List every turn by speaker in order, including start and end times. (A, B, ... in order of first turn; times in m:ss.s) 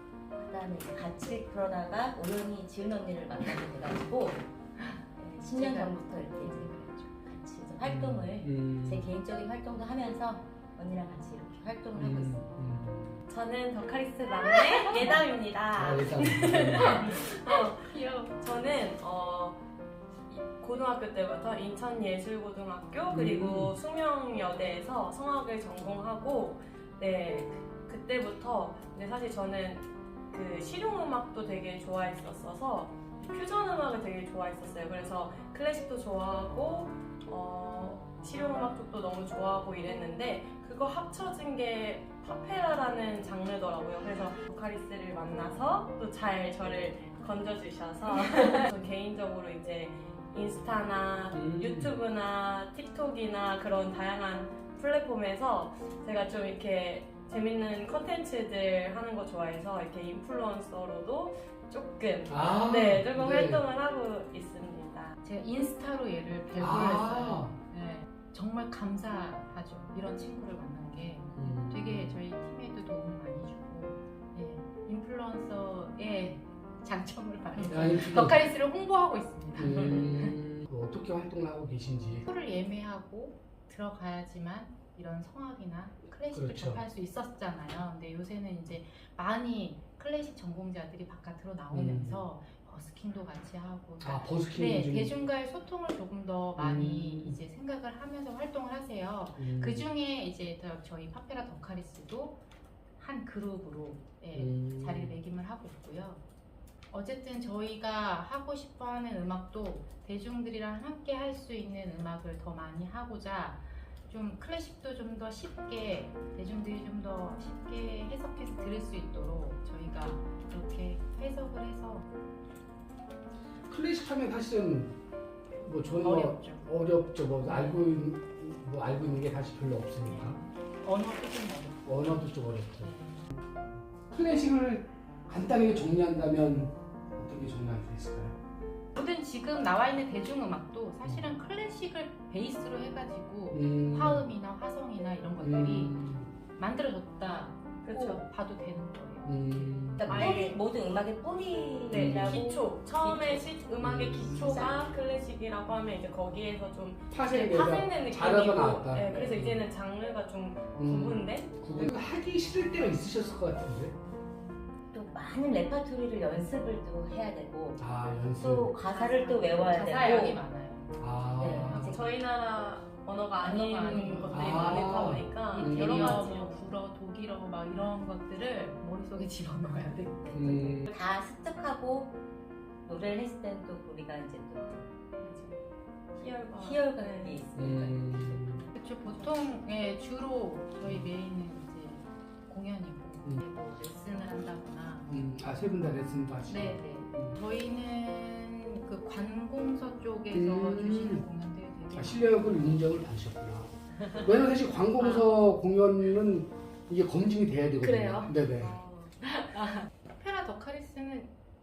0:00.3-0:04.5 A
0:04.8-0:07.1 B
0:05.2-0:12.5 A
0:07.8-0:09.1 C
0:11.9-0:13.2 C
0:13.3-0:19.6 D
0:14.6-0:15.2 B
0:15.8-0:17.1 C
0:16.8-0:18.3 B
0:20.3-1:05.2 D
0:23.1-0:23.8 C
0:51.3-0:52.0 C
1:02.3-1:03.6 C
1:05.2-1:20.4 B
1:06.6-1:07.6 C
1:11.4-1:12.2 C
1:17.6-1:18.4 C
1:19.6-1:22.3 C
1:22.3-1:42.4 B
1:26.3-1:26.8 C
1:31.7-1:32.2 C
1:34.0-1:35.1 C
1:36.6-1:37.4 C
1:39.4-1:39.8 C
1:43.0-1:46.2 B
1:44.3-1:45.2 C
1:46.9-2:02.1 B
2:03.7-2:05.0 C
2:05.6-2:10.4 C
2:06.0-2:06.7 B
2:07.4-2:07.8 B
2:10.0-2:13.3 B
2:11.8-2:12.9 C
2:14.1-2:18.4 C
2:19.0-2:26.0 B
2:23.5-2:24.3 C
2:25.4-2:26.3 C
2:26.5-2:30.0 B
2:27.8-2:28.2 D
2:29.2-2:30.4 C
2:30.0-2:30.6 D
2:30.0-2:33.5 A
2:31.9-2:41.9 D
2:31.9-2:32.5 C
2:33.8-2:34.6 C
2:34.4-2:34.8 A
2:37.1-2:39.6 C
2:40.8-2:44.0 C
2:44.9-2:50.4 A
2:47.8-2:48.7 C
2:48.8-2:52.1 B
2:51.0-2:52.0 C
2:51.4-2:52.1 A
2:51.8-2:56.7 D
2:53.4-3:00.9 B
2:53.8-2:54.3 A
2:54.3-2:56.3 C
3:00.3-3:00.9 C
3:00.9-3:02.2 A
3:02.8-3:04.9 A
3:05.2-3:05.6 D
3:06.2-3:07.4 D
3:06.5-3:08.7 A
3:07.6-3:08.7 C
3:08.7-3:15.2 B
3:10.8-3:11.1 C
3:15.1-3:17.4 C
3:16.5-3:22.7 B
3:20.3-3:21.3 C
3:21.9-3:28.8 C
3:24.0-3:24.3 B
3:27.8-3:28.3 B
3:28.4-3:29.2 D
3:29.2-3:31.3 B